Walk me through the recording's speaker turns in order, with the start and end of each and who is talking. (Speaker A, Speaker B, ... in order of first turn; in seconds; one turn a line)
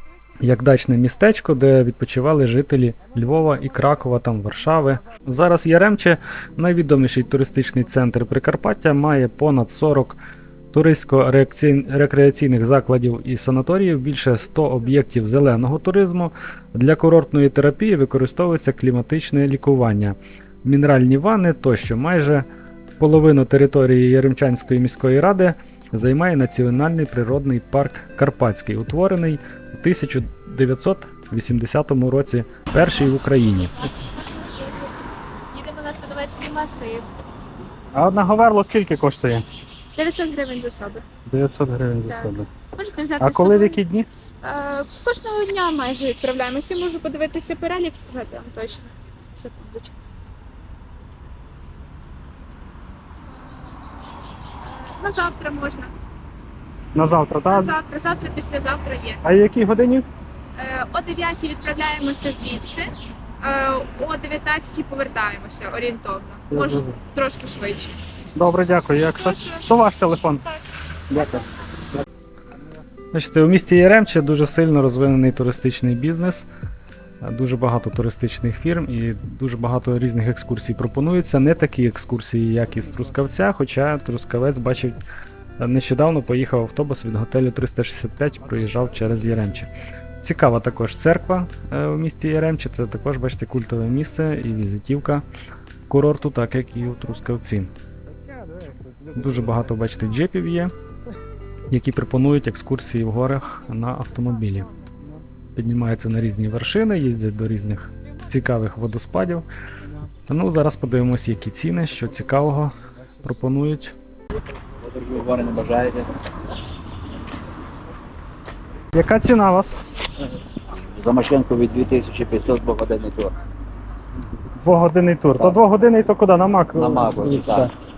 Speaker A: 0.4-10.2
Speaker A: 10.7-22.4
Speaker A: 23.0-33.9
Speaker B: 33.8-34.9
Speaker B: 35.5-37.1
Speaker A: 37.9-39.4
Speaker B: 40.0-41.0
Speaker A: 41.3-42.5
Speaker B: 42.1-43.8
Speaker A: 43.2-44.1
Speaker B: 44.4-50.0
Speaker B: 54.7-55.9
Speaker A: 56.9-57.7
Speaker B: 57.5-59.2
Speaker A: 59.2-60.0
Speaker B: 60.5-68.0
Speaker A: 66.5-67.0
Speaker A: 68.3-70.4
Speaker B: 69.0-69.7
Speaker A: 71.1-71.4
Speaker A: 73.1-76.5
Speaker A: 77.2-85.0
Speaker A: 85.6-89.7
Speaker A: 90.2-95.2
Speaker A: 95.9-97.7
Speaker A: 99.1-100.7
Speaker A: 101.7-104.7
Speaker A: 105.5-109.5
Speaker A: 110.3-114.0
Speaker C: 114.8-116.1
Speaker A: 118.9-119.8
Speaker C: 121.0-123.3
Speaker A: 124.6-127.7
Speaker C: 126.7-127.7